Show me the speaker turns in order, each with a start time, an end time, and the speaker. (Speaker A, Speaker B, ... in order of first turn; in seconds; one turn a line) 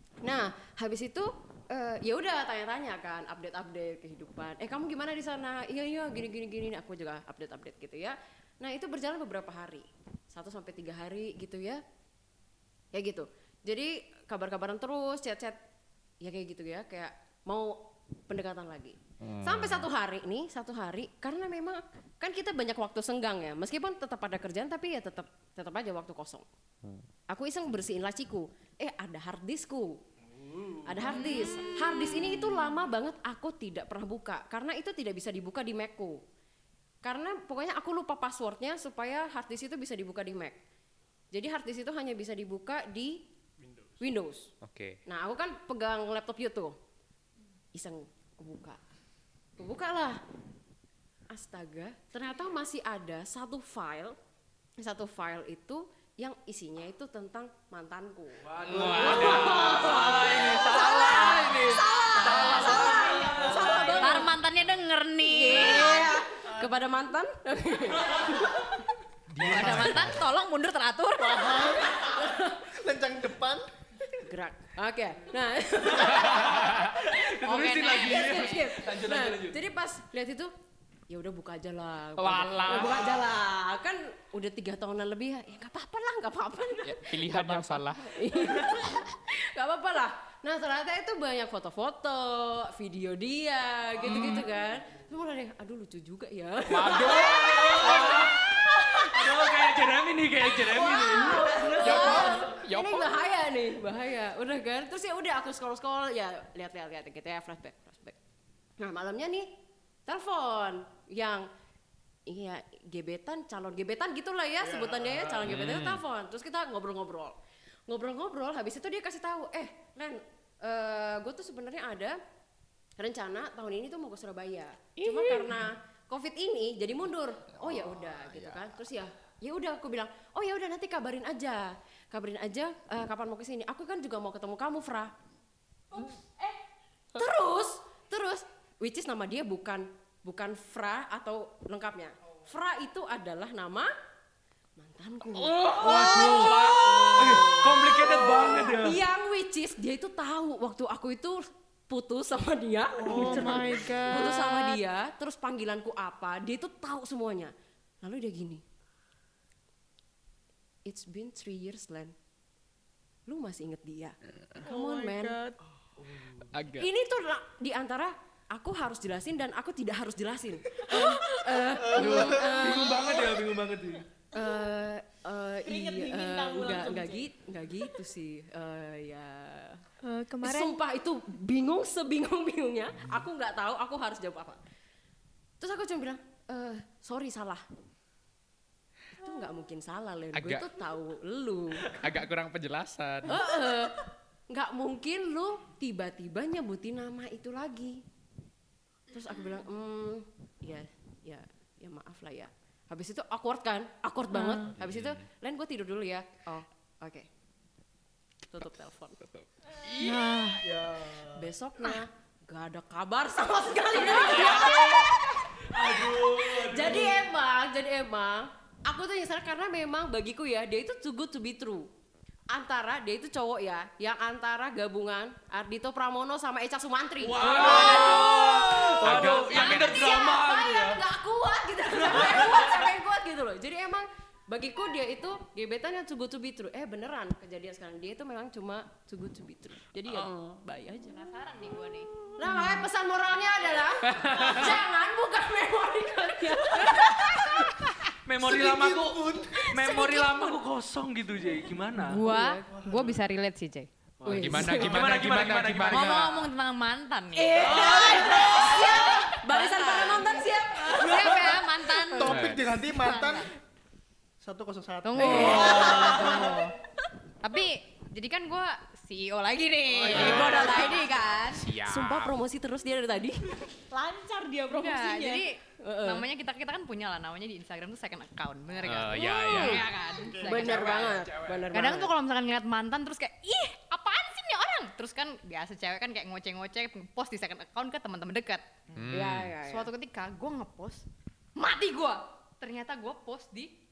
Speaker A: 0.2-11.8
Speaker A: 12.9-15.6
Speaker A: 16.2-26.4
Speaker B: 19.5-19.8
Speaker A: 27.3-30.0
Speaker C: 30.2-31.8
Speaker A: 30.9-36.2
Speaker A: 37.0-40.6
Speaker A: 41.3-43.2
Speaker D: 43.6-44.2
Speaker A: 44.0-44.5
Speaker B: 44.6-45.0
Speaker A: 45.1-46.8
Speaker A: 47.7-48.8
Speaker A: 49.6-50.2
Speaker A: 51.3-54.2
Speaker A: 54.8-64.4
Speaker C: 58.4-63.9
Speaker B: 58.7-59.7
Speaker D: 58.7-59.6
Speaker E: 60.8-62.9
Speaker F: 62.4-64.0
Speaker D: 63.4-63.9
Speaker E: 63.9-66.1
Speaker A: 65.2-68.9
Speaker D: 66.4-66.7
Speaker D: 69.4-70.1
Speaker B: 69.4-70.1
Speaker E: 69.4-71.5
Speaker D: 71.2-73.6
Speaker A: 71.9-72.6
Speaker A: 74.1-76.8
Speaker C: 75.9-79.6
Speaker B: 76.4-77.0
Speaker E: 77.4-78.8
Speaker A: 77.9-80.5
Speaker A: 81.1-99.7
Speaker B: 82.2-83.2
Speaker B: 86.8-88.2
Speaker C: 88.3-88.8
Speaker C: 94.0-94.6
Speaker B: 94.0-94.5
Speaker B: 96.7-98.0
Speaker C: 97.1-98.5
Speaker C: 99.0-102.5
Speaker A: 100.4-108.2
Speaker B: 101.8-103.2
Speaker A: 108.8-111.5
Speaker A: 112.3-117.4
Speaker D: 114.6-115.6
Speaker B: 115.5-116.0
Speaker A: 117.9-122.2
Speaker A: 123.0-135.1
Speaker F: 125.0-125.6
Speaker A: 137.2-143.9
Speaker A: 144.8-158.6
Speaker C: 145.7-149.0
Speaker F: 145.9-146.3
Speaker D: 153.1-153.9
Speaker G: 153.1-154.5
Speaker F: 153.1-154.8
Speaker A: 160.9-162.2
Speaker A: 163.3-165.4
Speaker F: 164.6-165.6
Speaker C: 166.0-166.5
Speaker B: 166.5-166.9
Speaker A: 166.7-173.4
Speaker C: 170.9-174.1
Speaker D: 171.7-172.9
Speaker A: 174.3-179.8
Speaker F: 175.6-177.3
Speaker G: 180.0-180.8
Speaker A: 180.4-184.6
Speaker A: 185.6-187.6
Speaker A: 189.1-192.1
Speaker B: 190.3-190.7
Speaker B: 191.9-193.6
Speaker A: 193.2-198.0
Speaker A: 199.1-207.3
Speaker G: 204.3-204.7
Speaker B: 204.7-205.3
Speaker A: 208.5-209.2
Speaker B: 209.3-210.2
Speaker G: 209.9-210.6
Speaker D: 210.6-211.5
Speaker A: 211.4-221.9
Speaker C: 213.9-215.1
Speaker C: 215.7-217.2
Speaker A: 222.5-241.2
Speaker C: 227.2-231.0
Speaker B: 229.0-230.1
Speaker C: 231.9-232.9
Speaker E: 241.1-242.1
Speaker A: 242.4-248.1
Speaker C: 244.0-244.8
Speaker C: 248.2-252.2
Speaker D: 248.4-249.7
Speaker A: 249.8-250.5
Speaker E: 252.1-253.9
Speaker A: 252.1-252.7
Speaker D: 252.3-253.2
Speaker C: 254.2-256.2
Speaker B: 254.3-256.5
Speaker A: 254.3-255.1
Speaker E: 255.9-263.5
Speaker A: 257.4-261.6
Speaker C: 257.5-259.2
Speaker C: 260.9-261.6
Speaker D: 262.1-263.5
Speaker B: 262.2-262.6
Speaker D: 264.4-266.1
Speaker E: 265.0-266.7
Speaker A: 265.2-266.6
Speaker F: 265.4-266.5
Speaker C: 265.4-266.3
Speaker E: 267.4-271.7
Speaker A: 270.0-273.7
Speaker B: 270.1-270.9
Speaker B: 271.5-272.4
Speaker F: 273.9-275.5
Speaker E: 274.7-281.2
Speaker A: 275.8-276.3
Speaker B: 278.8-279.9
Speaker A: 279.1-279.9
Speaker D: 280.1-281.1
Speaker A: 280.4-282.1
Speaker C: 280.6-281.7
Speaker E: 281.7-288.6
Speaker B: 288.9-289.5
Speaker A: 289.1-289.9
Speaker E: 289.6-291.1
Speaker E: 291.6-293.7